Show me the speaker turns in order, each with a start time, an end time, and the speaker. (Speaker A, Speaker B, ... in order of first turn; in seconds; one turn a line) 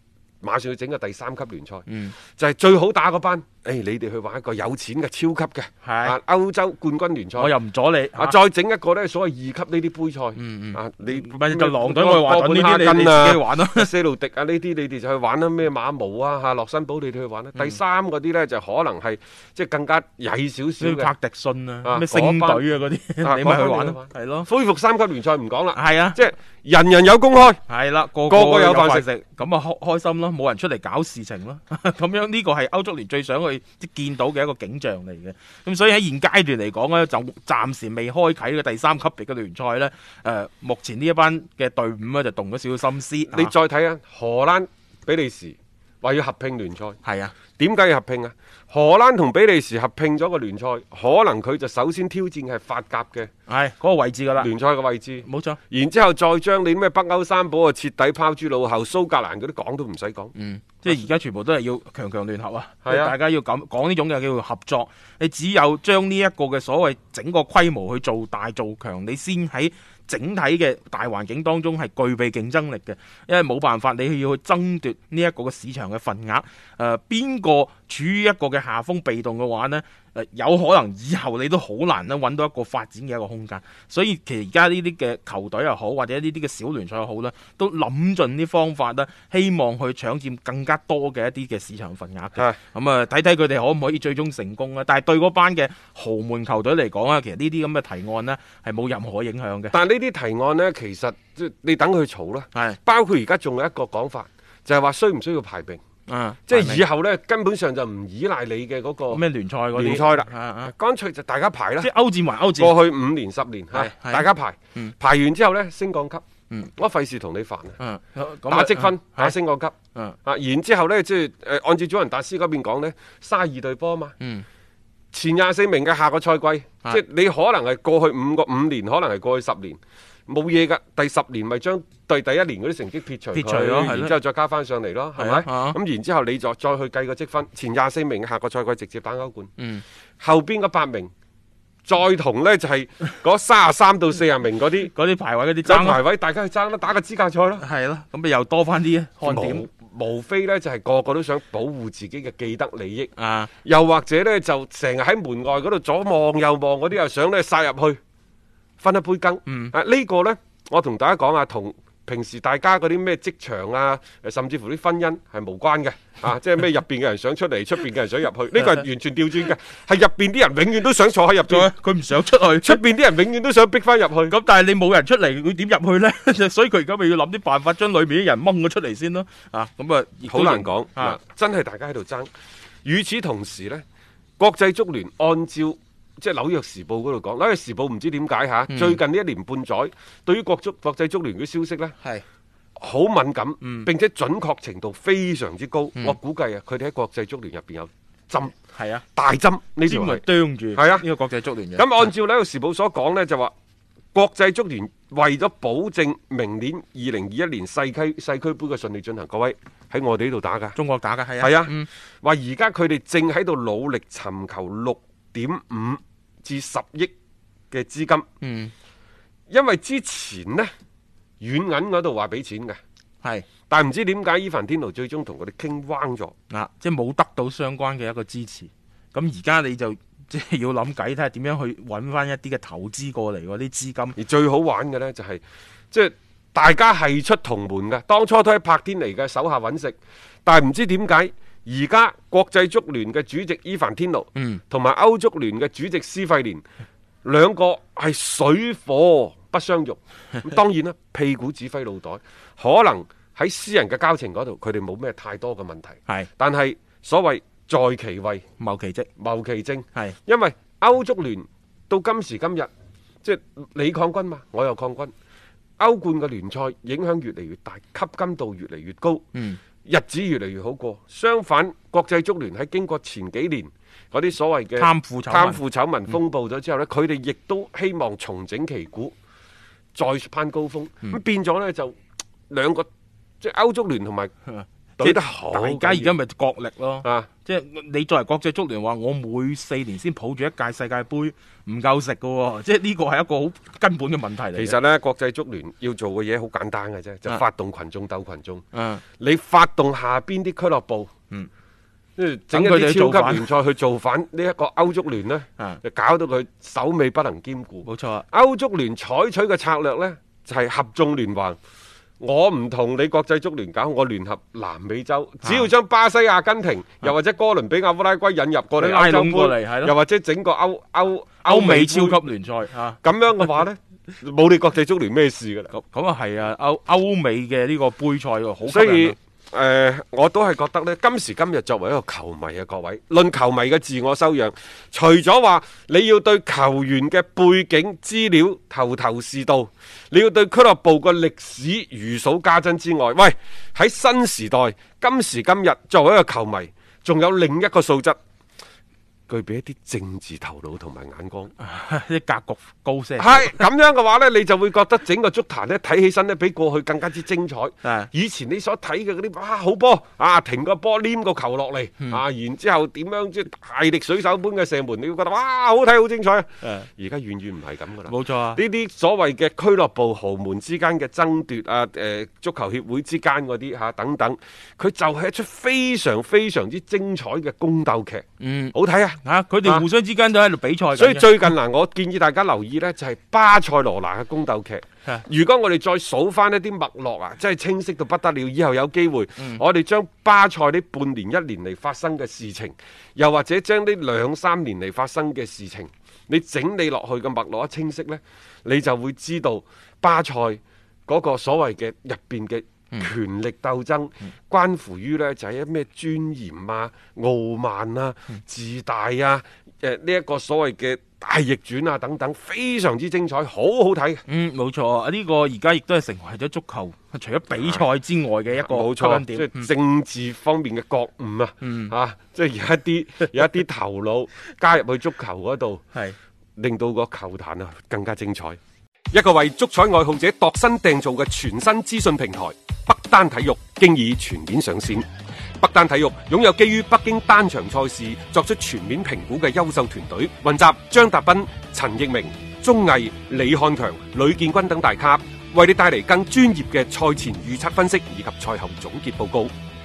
Speaker A: 0.4-7.5
Speaker B: 1.9-2.1
Speaker B: 5.8-6.2
Speaker B: 7.4-8.3
Speaker A: 8.2-21.1
Speaker B: 10.3-13.9
Speaker B: 20.8-24.5
Speaker A: 21.8-22.6
Speaker A: 23.2-27.6
Speaker B: 25.7-26.2
Speaker B: 27.7-43.5
Speaker A: 28.3-29.0
Speaker A: 43.3-47.0
Speaker B: 47.0-47.3
Speaker A: 47.6-53.3
Speaker B: 53.5-54.5
Speaker A: 54.4-60.3
Speaker B: 55.2-55.6
Speaker B: 60.3-99.7
Speaker A: 62.8-63.1
Speaker A: 99.7-105.8
Speaker B: 106.1-106.8
Speaker A: 106.5-109.2
Speaker B: 109.1-110.7
Speaker A: 109.7-111.9
Speaker B: 111.8-112.8
Speaker A: 112.6-116.2
Speaker B: 113.7-114.9
Speaker A: 116.8-117.8
Speaker B: 117.8-119.3
Speaker A: 118.5-119.7
Speaker A: 120.2-124.1
Speaker B: 124.2-124.4
Speaker A: 125.1-139.5
Speaker B: 133.3-134.1
Speaker B: 135.2-135.8
Speaker B: 139.6-139.8
Speaker A: 140.2-141.1
Speaker A: 141.8-144.9
Speaker B: 144.9-146.0
Speaker A: 145.6-147.6
Speaker B: 147.6-149.6
Speaker A: 149.2-153.1
Speaker B: 153.2-153.5
Speaker A: 153.6-158.0
Speaker A: 158.8-171.7
Speaker B: 159.5-159.7
Speaker B: 171.5-172.8
Speaker A: 172.6-174.3
Speaker B: 174.3-181.2
Speaker A: 180.3-182.3
Speaker A: 182.8-183.8
Speaker A: 184.4-191.9
Speaker B: 188.7-189.0
Speaker A: 192.8-198.5
Speaker B: 193.6-193.9
Speaker B: 198.6-199.0
Speaker A: 199.2-200.2
Speaker B: 199.8-202.1
Speaker A: 200.7-201.1
Speaker A: 201.8-203.5
Speaker A: 204.1-210.8
Speaker B: 210.7-211.9
Speaker A: 211.4-217.1
Speaker A: 217.7-218.2
Speaker B: 218.4-218.7
Speaker A: 219.5-220.7
Speaker A: 221.4-222.8
Speaker B: 223.2-223.5
Speaker A: 223.7-226.3
Speaker B: 226.5-234.1
Speaker A: 234.2-246.6
Speaker B: 244.3-244.6
Speaker A: 247.2-258.4
Speaker B: 258.6-259.1
Speaker A: 259.2-262.7
Speaker A: 263.2-265.1
Speaker A: 265.8-269.2
Speaker B: 269.3-269.6
Speaker A: 269.9-279.1
Speaker B: 274.8-275.6
Speaker A: 279.9-281.9
Speaker A: 282.5-282.9
Speaker A: 283.4-284.3
Speaker B: 284.5-294.7
Speaker A: 285.0-286.2
Speaker A: 294.5-298.6
Speaker B: 298.7-299.0
Speaker A: 299.2-301.1
Speaker A: 302.2-311.6
Speaker B: 302.5-303.4
Speaker B: 307.8-308.2
Speaker A: 312.2-322.2
Speaker B: 315.4-315.7
Speaker B: 318.8-319.9
Speaker B: 321.4-323.0
Speaker A: 323.0-325.7
Speaker B: 325.7-329.1
Speaker A: 328.7-348.2
Speaker A: 349.3-351.5
Speaker B: 351.6-353.6
Speaker A: 353.2-379.9
Speaker B: 357.8-358.1
Speaker B: 366.6-366.9
Speaker B: 368.1-368.6
Speaker B: 378.4-381.5
Speaker A: 380.9-414.2
Speaker B: 414.3-419.7
Speaker A: 417.5-417.8
Speaker A: 418.6-425.8
Speaker B: 421.6-421.9
Speaker A: 426.6-428.6
Speaker A: 429.1-435.1
Speaker A: 435.6-449.5